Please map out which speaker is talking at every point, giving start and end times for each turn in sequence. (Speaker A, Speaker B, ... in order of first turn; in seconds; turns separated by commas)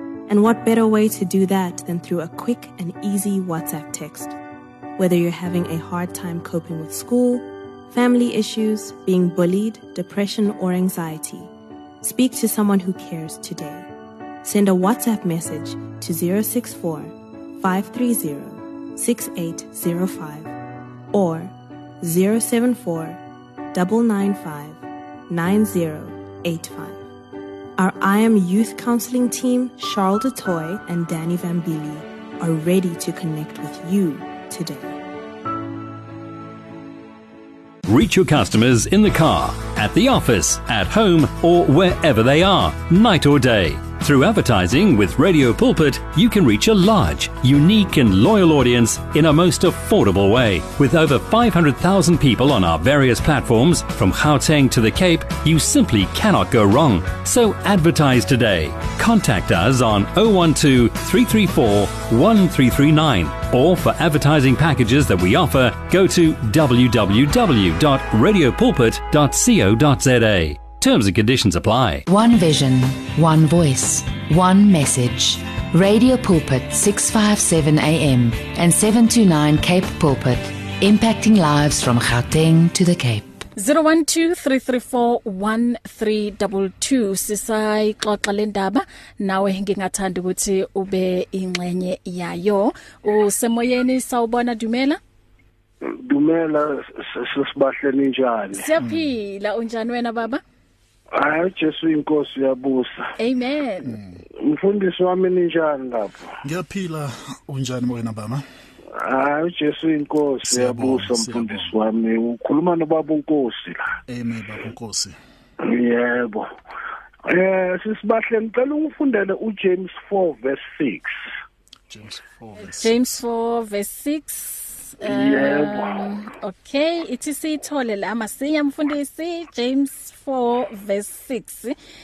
Speaker A: 0.3-4.3, Speaker A: 5.0-11.5, Speaker A: 12.0-13.9, Speaker A: 14.4-20.5, Speaker A: 21.1-23.2, Speaker A: 23.7-27.0, Speaker A: 27.8-35.0, Speaker B: 37.8-72.1, Speaker C: 72.1-83.2, Speaker D: 83.5-95.0, Speaker E: 95.8-98.7, Speaker D: 98.5-100.4, Speaker F: 98.8-99.1, Speaker E: 101.1-103.1, Speaker D: 103.2-104.0, Speaker F: 103.9-104.2, Speaker E: 104.3-106.3, Speaker F: 106.4-108.4, Speaker E: 108.9-113.9, Speaker F: 110.4-111.7, Speaker F: 114.1-115.2, Speaker E: 115.6-116.5, Speaker E: 117.3-121.2, Speaker F: 121.9-123.2, Speaker D: 122.8-131.7, Speaker E: 125.0-126.0